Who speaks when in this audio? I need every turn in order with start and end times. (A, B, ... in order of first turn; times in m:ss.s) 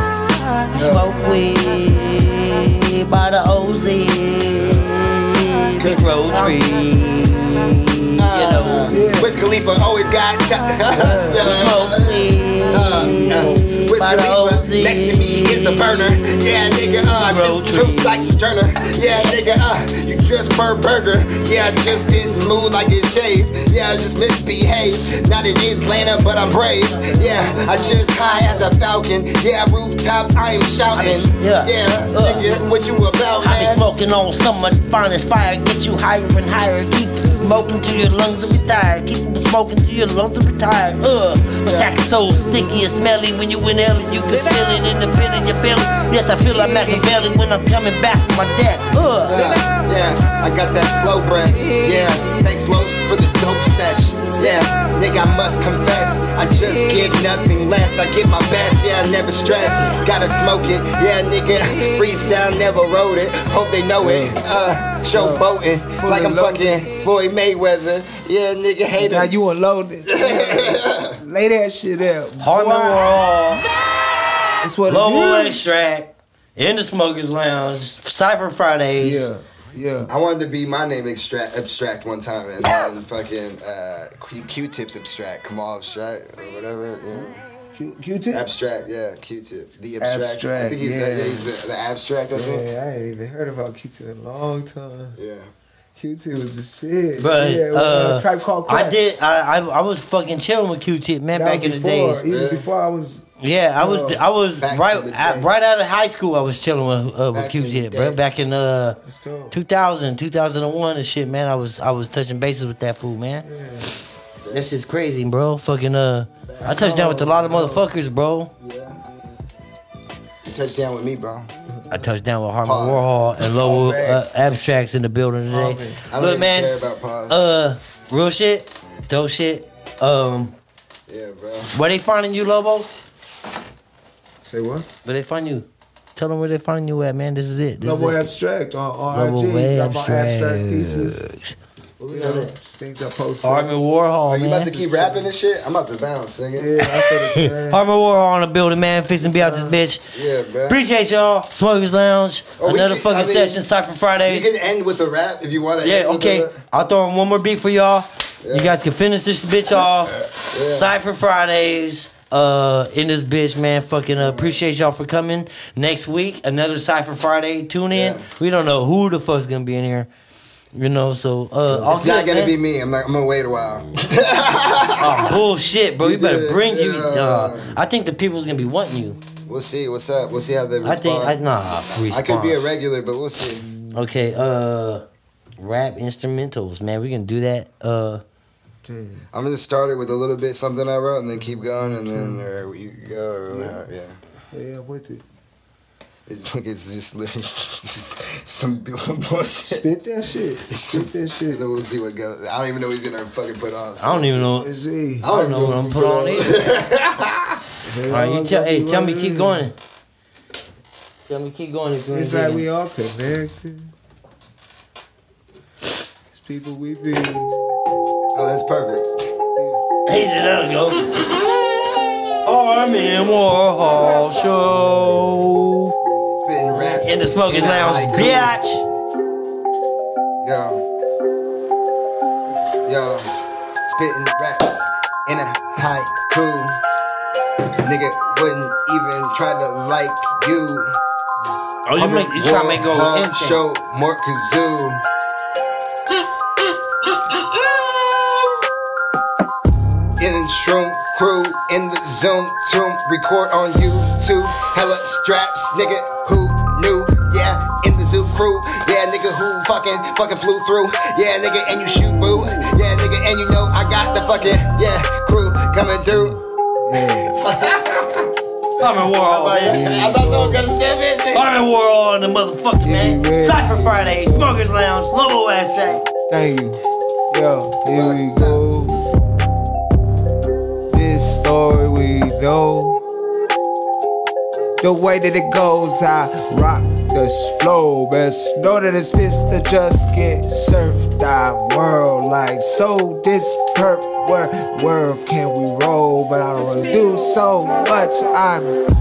0:00.7-0:09.0 A
0:00.8-0:01.3 B
0:05.8-0:06.2 C
0:08.2-0:33.8 C
0:08.9-0:09.4 B
0:11.0-0:16.0 A
0:11.0-0:11.4 B
0:13.1-0:13.7 B
0:17.1-0:18.1 A
0:27.1-0:27.7 A
0:31.0-0:32.4 A
0:33.4-0:49.4 A
0:49.2-1:09.4 C
1:04.0-1:04.4 B
1:05.1-1:05.5 B
1:06.0-1:06.9 B
1:09.0-1:13.2 B
1:10.1-1:11.2 C
1:12.4-1:13.7 A
1:14.6-1:15.6 B
1:14.9-1:19.3 A
1:19.0-1:20.1 B
1:20.1-1:27.4 C
1:27.7-1:28.4 B
1:28.3-1:32.6 C
1:30.0-1:31.5 B
1:32.3-1:35.2 B
1:35.2-1:35.5 C
1:36.0-1:39.0 B
1:37.2-1:42.2 A
1:41.3-1:43.2 B
1:42.3-1:42.6 C
1:43.4-1:49.0 A
1:43.8-1:44.2 B
1:44.6-1:45.5 C
1:47.3-1:48.2 C
1:49.0-1:49.6 B
1:49.5-1:53.4 A
1:53.4-1:54.0 B
1:54.4-1:54.7 C
1:54.5-1:58.5 A
1:56.5-1:56.9 C
1:56.6-1:57.8 B
1:58.6-1:59.0 C
2:00.5-2:01.5 C
2:01.9-2:06.8 A
2:02.6-2:03.1 C
2:03.4-2:04.2 B
2:05.5-2:06.0 B
2:06.1-2:07.4 C
2:07.3-2:10.6 A
2:11.1-2:11.7 C
2:11.7-2:12.9 A
2:14.4-2:14.9 B
2:15.0-2:18.3 A
2:17.8-2:21.2 B
2:19.1-2:21.5 A
2:22.0-2:23.7 B
2:22.0-2:22.5 A
2:23.4-2:24.8 A
2:24.3-2:26.7 C
2:24.9-2:25.2 B
2:26.6-2:27.8 B
2:26.8-2:30.0 A
2:29.2-2:29.8 B
2:30.1-2:30.8 C
2:30.7-2:34.5 A
2:32.6-2:33.6 C
2:34.2-2:36.6 C
2:35.8-2:50.1 A
2:38.4-2:38.8 C
2:40.5-2:40.9 C
2:44.2-2:44.6 C
2:47.9-2:48.2 C
2:50.7-2:52.5 A
2:51.7-2:55.4 C
2:55.0-2:59.2 A
2:56.0-2:57.7 C
2:59.5-3:01.4 C
3:00.8-3:02.6 A
3:02.1-3:03.6 C
3:03.9-3:05.0 A
3:05.6-3:08.2 A
3:08.8-3:09.2 B
3:09.3-3:14.2 C
3:12.1-3:12.5 B
3:13.5-3:13.8 B
3:14.5-3:15.2 B
3:16.3-3:19.8 C
3:19.7-3:21.6 B
3:20.7-3:24.5 C
3:24.0-3:24.7 A
3:24.6-3:26.5 B
3:25.2-3:27.6 C
3:25.2-3:26.7 A
3:27.8-3:29.7 B
3:28.1-3:29.7 A
3:31.3-3:32.6 A
3:32.1-3:33.9 B
3:36.3-3:37.6 B
3:38.3-3:39.3 C
3:39.6-3:39.8 B
3:40.1-3:41.4 A
3:42.4-3:45.9 A
3:46.5-3:48.6 C
3:46.7-3:47.0 B
3:46.9-3:48.8 A
3:50.4-3:50.8 C
3:52.9-3:53.3 C
3:53.8-3:56.8 C
3:57.8-4:00.9 C
4:01.9-4:03.6 A
4:02.0-4:05.0 C
4:07.3-4:08.6 C
4:10.2-4:26.4 C
4:26.8-4:27.3 B
4:27.0-4:28.3 C
4:28.8-4:30.2 A
4:28.8-4:31.5 C
4:29.7-4:30.6 B
4:31.3-4:36.0 A
4:32.8-4:34.5 B
4:36.3-4:36.8 B
4:37.3-4:39.1 B
4:37.9-4:38.6 C
4:40.9-4:43.0 B
4:44.8-4:58.8 B